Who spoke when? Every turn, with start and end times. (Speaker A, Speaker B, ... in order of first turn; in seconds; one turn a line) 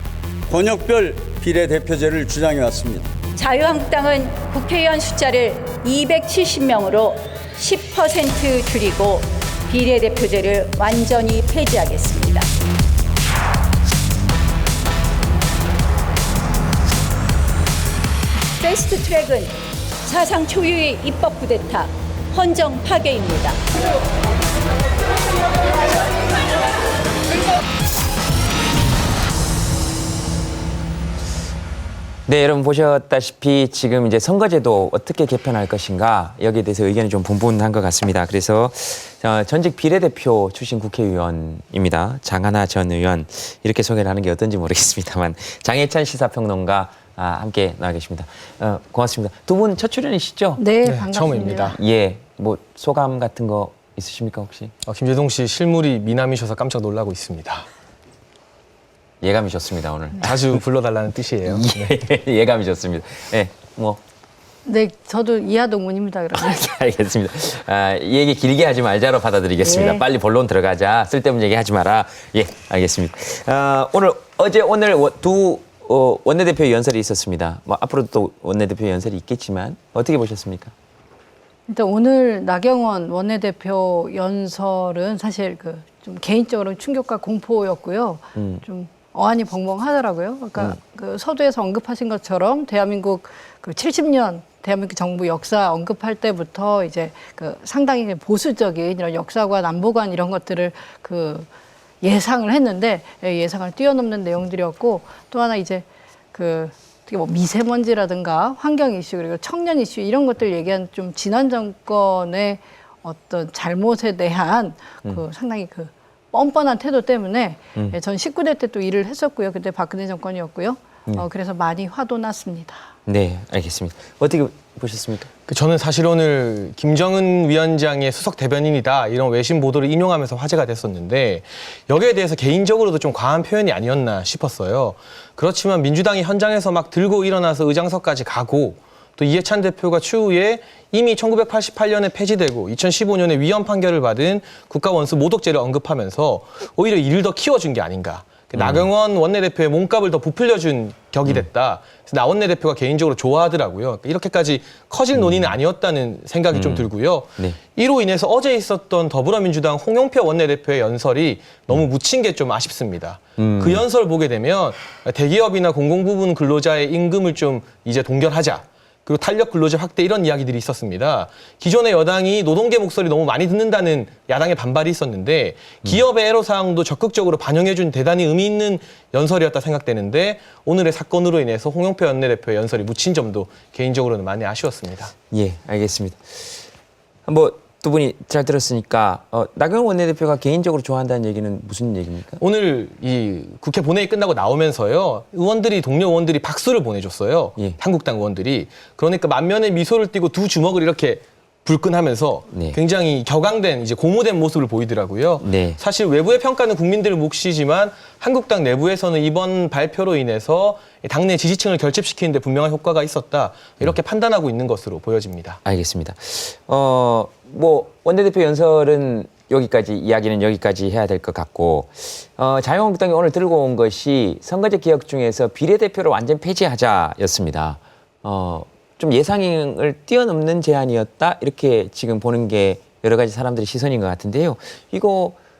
Speaker A: 0.5-3.0
Speaker B: 3.4-12.5
Speaker B: 18.6-23.6
Speaker C: 32.3-50.6
Speaker D: 50.6-51.8
Speaker E: 50.8-51.8
Speaker C: 51.7-54.7
Speaker E: 54.8-57.7
Speaker C: 59.2-60.6
Speaker E: 60.2-61.9
Speaker C: 61.5-64.0
Speaker D: 64.6-66.8
Speaker C: 66.3-80.7
Speaker D: 69.6-70.0
Speaker D: 81.7-101.5
Speaker C: 88.3-88.6
Speaker D: 102.0-122.9
Speaker C: 123.0-125.3
Speaker E: 125.5-185.1
Speaker C: 148.5-148.9
Speaker C: 155.1-155.5
Speaker C: 156.5-157.6
Speaker C: 163.4-163.8
Speaker C: 185.3-186.7
Speaker C: 187.2-192.4
Speaker E: 192.4-215.6
Speaker C: 202.5-202.8
Speaker C: 205.4-205.8
Speaker C: 215.6-235.4